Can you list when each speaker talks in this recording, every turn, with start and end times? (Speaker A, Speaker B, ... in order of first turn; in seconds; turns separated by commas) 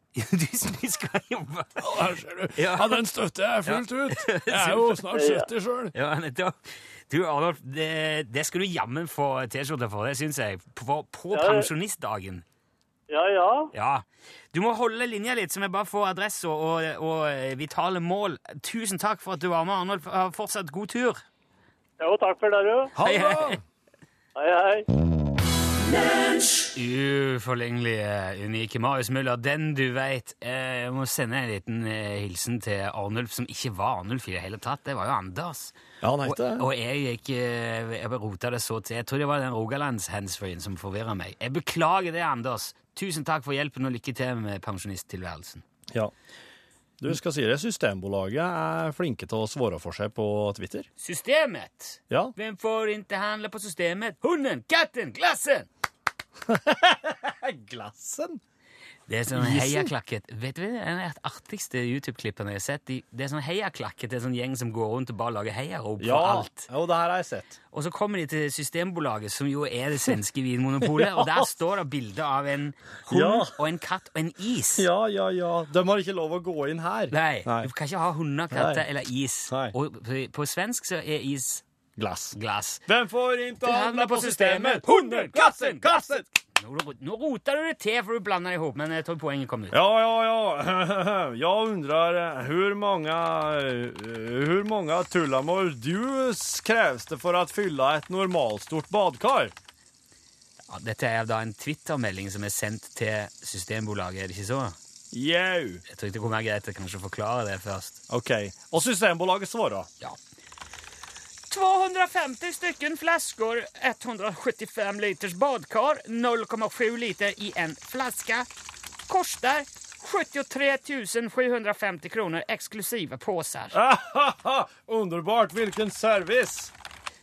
Speaker A: 0.1-3.0, Speaker B: 1.8-5.9, Speaker A: 3.6-5.0, Speaker C: 5.1-5.5, Speaker A: 5.9-12.4, Speaker C: 11.3-11.7, Speaker C: 13.1-13.7, Speaker A: 13.7-21.2, Speaker C: 22.0-22.9, Speaker B: 22.9-23.6, Speaker A: 23.0-23.6, Speaker C: 24.4-24.9, Speaker A: 26.8-45.6, Speaker B: 36.0-36.7, Speaker B: 47.0-50.9, Speaker A: 51.0-55.7, Speaker B: 56.5-58.4, Speaker A: 59.1-66.7, Speaker B: 59.3-59.9, Speaker B: 66.0-67.6, Speaker A: 67.7-74.9, Speaker B: 70.9-71.5, Speaker B: 73.1-73.6, Speaker B: 74.8-77.7, Speaker A: 77.1-81.6, Speaker B: 78.5-78.8, Speaker B: 79.5-79.8, Speaker B: 82.0-82.4, Speaker A: 82.3-82.8, Speaker B: 82.9-86.3, Speaker A: 83.6-89.8, Speaker B: 89.7-99.5, Speaker A: 100.7-104.8, Speaker B: 105.1-105.8, Speaker A: 105.9-108.0, Speaker B: 108.1-109.9, Speaker A: 111.5-118.5, Speaker A: 119.1-123.8, Speaker B: 123.7-126.7